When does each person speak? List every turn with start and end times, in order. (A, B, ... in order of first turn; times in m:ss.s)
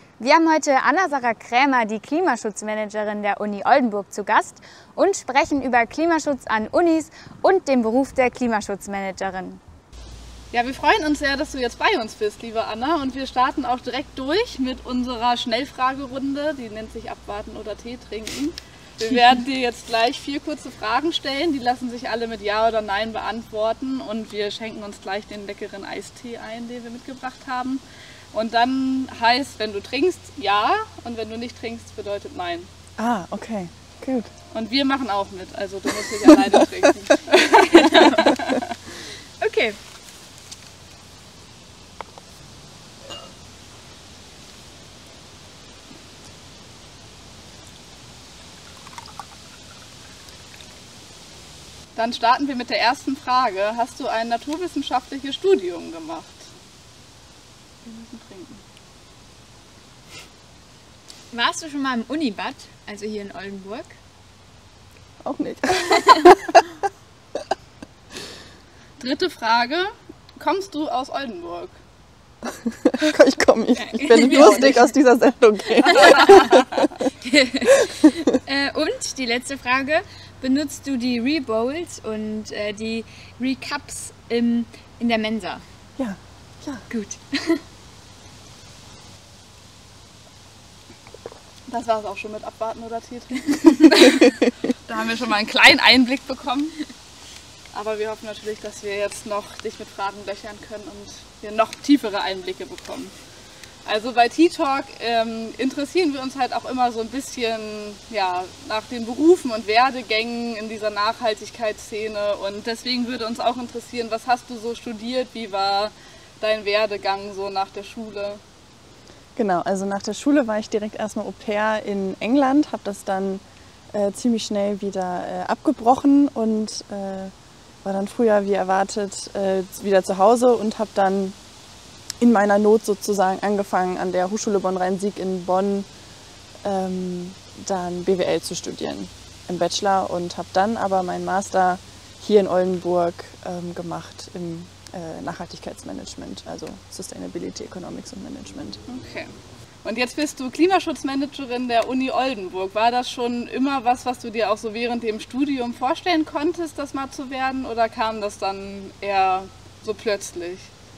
0:00.2-0:09.6 A
0:10.5-0:27.8 B
0:28.3-0:32.7 B
0:33.0-0:34.3 C
0:34.5-0:38.8 B
0:37.5-0:38.4 A
0:39.4-0:39.8 A
0:52.0-0:56.5 B
0:57.8-0:58.6 B
1:01.3-1:04.0 A
1:05.2-1:06.6 C
1:06.0-1:06.2 A
1:09.0-1:11.8 B
1:12.7-1:16.9 C
1:13.8-1:14.9 A
1:14.2-1:14.8 B
1:15.8-1:16.4 A
1:15.9-1:16.9 B
1:17.2-1:25.6 A
1:26.0-1:26.8 C
1:26.9-1:27.6 A
1:31.7-1:36.8 B
1:37.7-1:43.1 B
1:43.8-1:58.4 B
1:59.4-2:07.3 C
2:07.8-2:11.4 C
2:12.2-2:15.9 C
2:16.6-2:28.8 C
2:28.9-2:40.7 B